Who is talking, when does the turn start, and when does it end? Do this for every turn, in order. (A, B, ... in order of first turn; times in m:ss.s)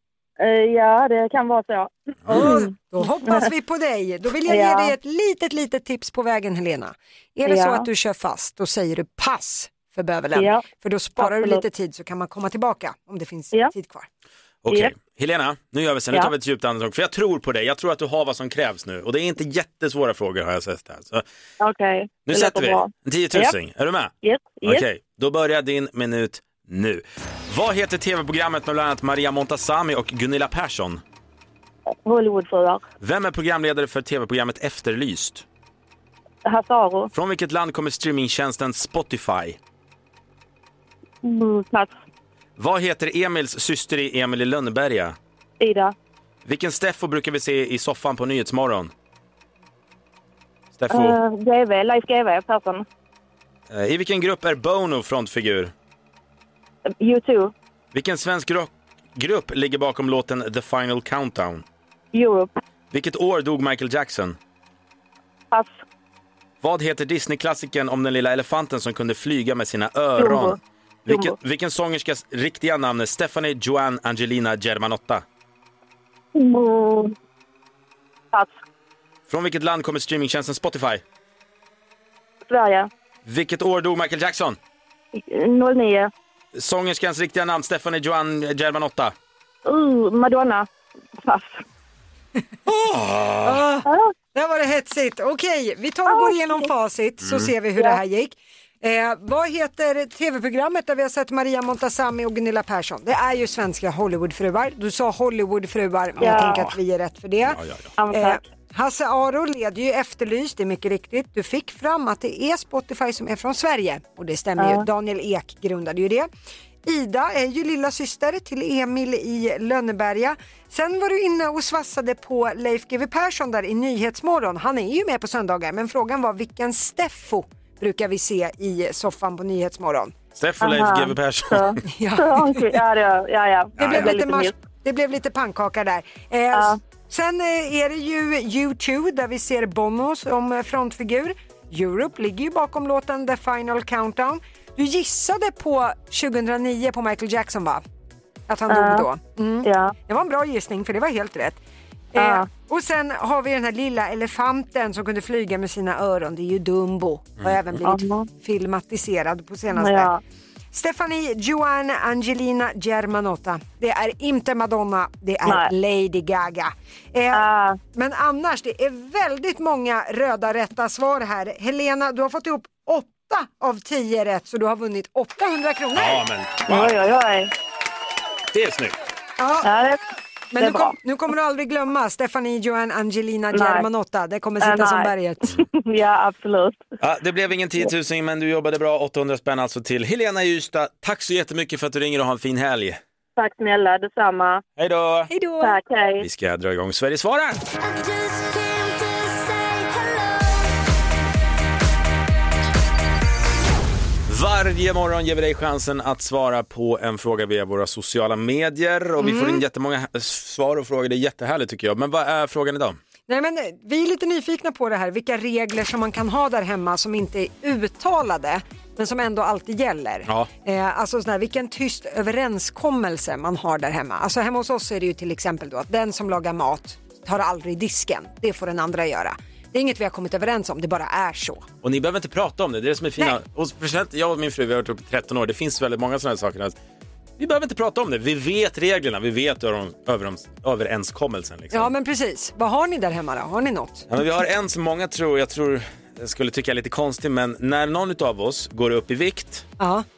0:00.4-0:03.5 A
0:02.3-0:14.1 B
0:04.4-0:04.9 A
0:07.4-0:07.9 A
0:10.3-0:10.6 A
0:11.2-0:11.6 A
0:14.6-0:21.2 C
0:21.6-0:23.5 A
0:22.2-0:31.0 C
0:24.2-0:24.8 A
0:32.0-0:32.8 A
0:33.0-0:35.4 C
0:36.4-0:37.1 A
0:37.1-0:39.6 C
0:41.2-0:41.9 A
0:42.6-0:45.2 C
0:45.6-0:45.9 A
0:46.4-0:48.9 C
0:50.7-0:51.2 C
0:50.9-0:52.8 A
0:53.7-0:55.7 C
0:57.0-0:57.5 A
0:57.9-1:01.6 C
1:02.1-1:02.5 A
1:02.9-1:04.4 C
1:05.5-1:05.8 A
1:06.6-1:15.2 C
1:10.2-1:10.6 A
1:11.1-1:11.4 A
1:16.3-1:17.1 A
1:19.3-1:21.0 C
1:22.5-1:22.9 A
1:23.2-1:24.6 C
1:25.1-1:26.1 A
1:26.5-1:29.1 C
1:29.6-1:30.7 A
1:31.2-1:31.6 A
1:32.7-1:33.6 C
1:33.4-1:47.6 B
1:33.8-1:34.1 A
1:36.0-1:36.7 A
1:37.2-1:37.5 C
1:46.2-1:46.6 A
1:46.2-1:46.8 C
1:47.4-1:47.9 C
1:48.0-1:48.4 A
1:48.1-1:56.3 B
1:54.6-1:54.8 A
1:56.8-2:10.1 B
2:10.4-2:11.7 C
2:10.6-2:14.5 A
2:11.9-2:12.8 B
2:13.8-2:14.1 C
2:13.8-2:27.8 B
2:16.5-2:16.8 A
2:28.5-2:31.6 B
2:28.7-2:29.1 A
2:29.6-2:29.9 A
2:32.1-2:40.1 B
2:32.2-2:32.5 A
2:37.8-2:38.3 A
2:39.7-2:40.2 A
2:40.7-2:56.2 B
2:45.4-2:45.7 A
2:47.3-2:47.8 A
2:55.9-2:57.0 C
2:56.7-2:57.5 A
2:58.5-2:59.0 C
2:59.4-2:59.7 B
2:59.6-3:00.0 A
3:00.5-3:05.5 B
3:00.6-3:00.9 A
3:03.5-3:03.9 A
3:04.6-3:06.8 A
3:07.0-3:13.0 C
3:13.4-3:14.6 A
3:14.8-3:15.3 C
3:15.3-3:15.8 B
3:15.6-3:16.2 A
3:16.2-3:17.6 C
3:24.3-3:33.0 C
3:29.2-3:29.6 B
3:33.3-3:51.6 B
3:51.8-3:56.7 C
3:57.4-4:01.9 C
4:01.7-4:04.1 B
4:04.1-4:09.7 C
4:09.8-4:10.0 B